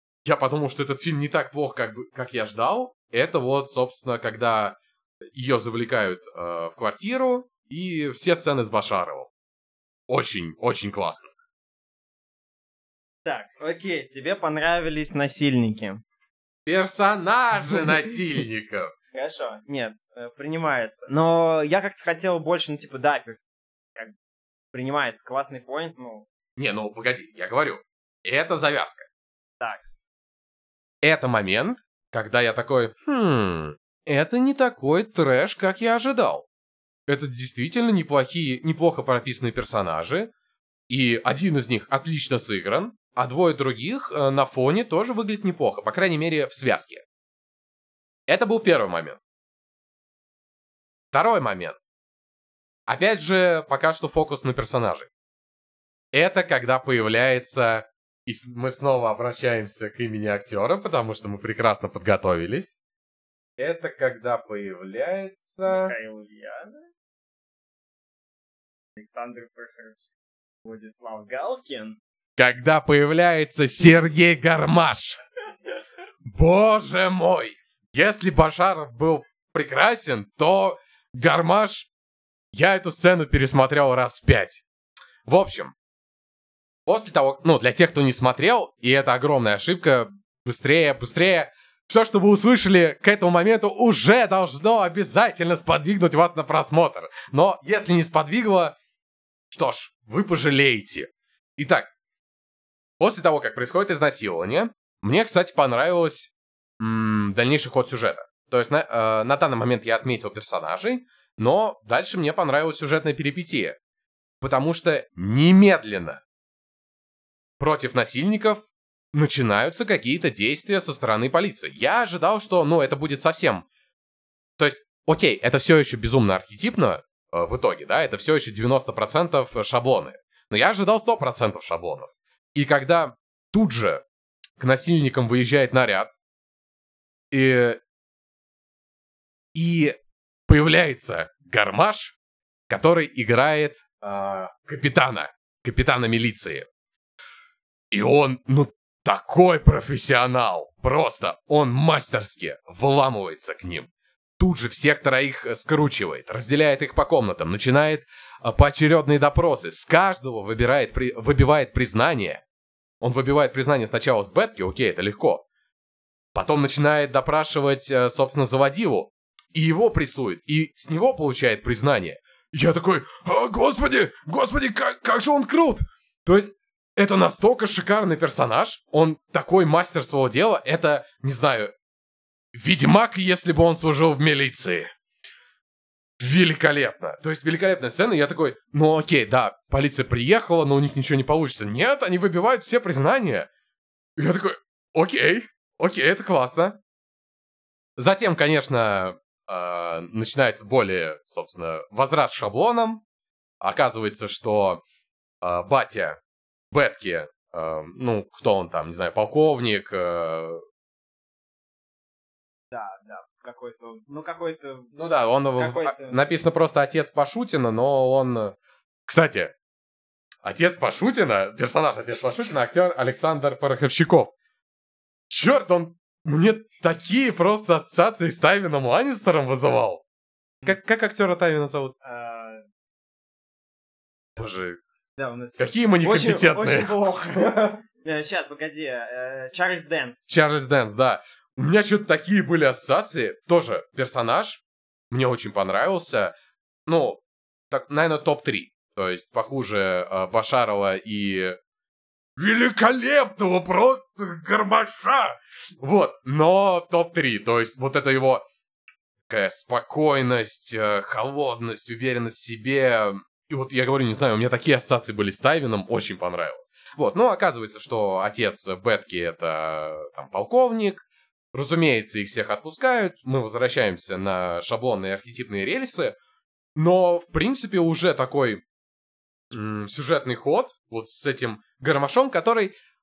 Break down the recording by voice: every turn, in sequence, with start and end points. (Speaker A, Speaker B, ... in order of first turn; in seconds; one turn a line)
Speaker A: 0.2-4.8
Speaker A: 5.3-9.3
Speaker A: 10.1-11.3
Speaker B: 13.2-16.0
Speaker A: 16.6-18.9
Speaker B: 19.1-23.4
Speaker B: 24.7-26.3
Speaker A: 26.6-29.1
Speaker A: 31.0-36.5
Speaker A: 37.1-40.3
Speaker A: 40.9-47.0
Speaker A: 48.3-49.2
Speaker A: 51.1-51.8
Speaker A: 52.9-55.1
Speaker A: 56.1-62.7
Speaker A: 63.6-65.9
Speaker B: 65.6-66.8
Speaker B: 69.0-70.0
Speaker B: 70.6-72.0
Speaker A: 72.3-75.2
Speaker A: 76.2-81.9
Speaker A: 82.5-84.6
Speaker A: 85.2-85.7
Speaker A: 86.8-98.7
Speaker A: 99.5-101.9
Speaker A: 103.0-113.8
Speaker A: 114.4-116.2
Speaker A: 117.6-123.7
Speaker A: 124.6-134.0
Speaker A: 134.6-136.1
Speaker A: 137.3-137.8
Speaker A: 139.5-142.2
Speaker A: 142.7-146.7
Speaker A: 147.9-162.4
Speaker A: 163.0-165.4
Speaker A: 166.3-181.7
Speaker A: 182.5-184.9
Speaker A: 186.2-193.5
Speaker A: 194.2-196.8
Speaker A: 198.0-203.0
Speaker A: 203.6-204.8
Speaker A: 205.4-206.2
Speaker A: 206.7-210.6
Speaker B: 212.7-214.9
Speaker A: 214.9-218.6
Speaker B: 215.6-216.2
Speaker A: 219.1-219.5
Speaker A: 220.4-224.3
Speaker A: 225.3-230.0
Speaker A: 230.6-231.9
Speaker B: 232.0-232.6
Speaker A: 234.3-234.8
Speaker B: 235.2-240.2
Speaker A: 235.6-236.9
Speaker A: 240.3-246.3
Speaker A: 246.9-251.6
Speaker A: 252.3-258.4
Speaker A: 259.3-276.2
Speaker A: 276.8-278.6
Speaker A: 279.5-282.7